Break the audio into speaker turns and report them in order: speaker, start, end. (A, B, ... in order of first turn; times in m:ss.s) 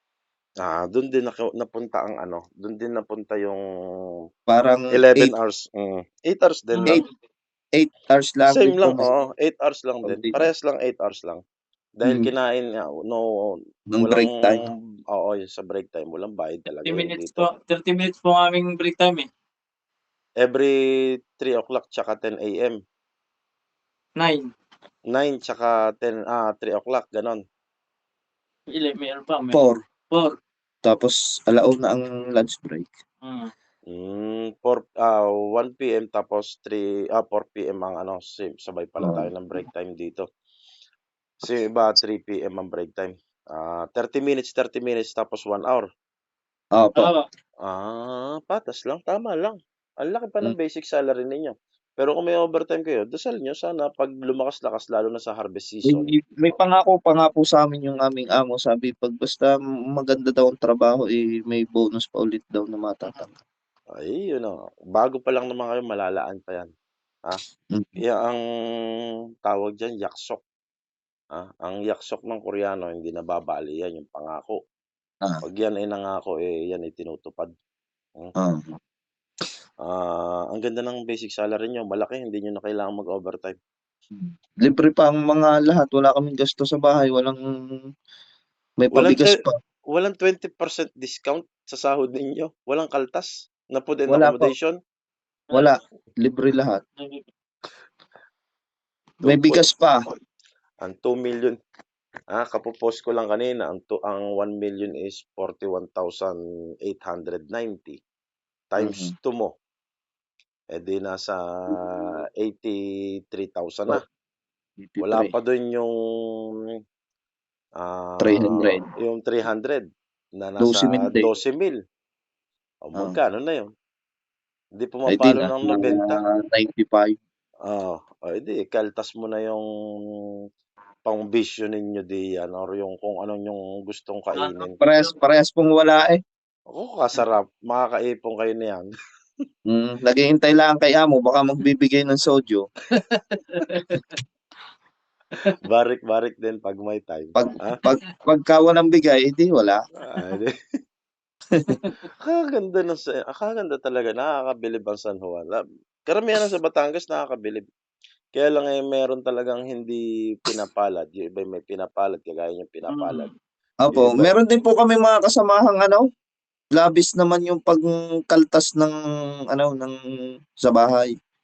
0:00.6-0:03.6 A
0:04.5-0:05.3 B
0:04.9-0:07.0 A
0:06.7-0:07.0 C
0:07.8-0:09.1 B
0:08.5-0:11.4 A
0:10.1-0:10.5 B
0:12.0-0:13.3 A
0:12.0-0:12.3 B
0:13.9-0:14.7 B
0:14.0-0:17.5 A
0:16.8-0:19.3 C
0:20.4-0:20.7 A
0:21.3-0:22.8 A
0:24.2-0:24.5 C
0:25.1-0:27.4 A
0:28.7-0:30.4 C
0:29.5-0:29.8 B
0:30.8-0:32.9 B
0:33.2-0:33.5 C
0:33.9-0:40.3 A
0:39.0-0:39.3 B
0:41.4-0:45.9 A
0:46.8-0:47.1 B
0:47.0-0:47.3 C
0:47.6-0:56.1 A
0:55.9-1:03.4 B
1:04.0-1:06.7 A
1:07.7-1:08.0 B
1:08.0-1:08.4 A
1:09.4-1:10.4 A
1:11.3-1:14.6 A
1:15.4-1:17.5 A
1:18.4-1:18.8 B
1:19.8-1:23.6 A
1:24.1-1:27.4 B
1:28.8-1:29.6 B
1:28.9-1:29.4 A
1:29.9-1:34.8 A
1:34.1-1:34.5 B
1:35.5-1:36.8 B
1:37.0-1:37.2 C
1:39.2-1:39.7 A
1:39.2-1:40.0 B
1:40.8-1:41.6 A
1:42.3-1:48.0 A
1:48.7-1:49.5 A
1:48.8-1:49.1 B
1:50.7-1:54.0 A
1:54.8-1:55.3 B
1:55.0-1:56.4 A
1:57.8-1:59.8 A
1:58.2-1:58.9 B
2:00.4-2:01.8 A
2:00.6-2:01.3 B
2:02.8-2:03.7 A
2:04.8-2:06.2 A
2:05.1-2:07.2 B
2:07.7-2:09.7 A
2:11.1-2:14.8 A
2:14.4-2:15.1 C
2:14.7-2:16.2 B
2:16.7-2:18.9 A
2:19.7-2:22.7 B
2:22.9-2:24.2 C
2:25.6-2:27.8 A
2:27.4-2:29.8 B
2:27.8-2:28.1 C
2:30.0-2:30.5 A
2:31.7-2:32.0 C
2:32.2-2:37.6 A
2:38.4-2:43.3 A
2:42.9-2:43.4 C
2:43.8-2:46.0 B
2:43.9-2:44.3 A
2:46.8-2:49.0 B
2:49.5-2:50.0 B
2:50.6-2:51.1 B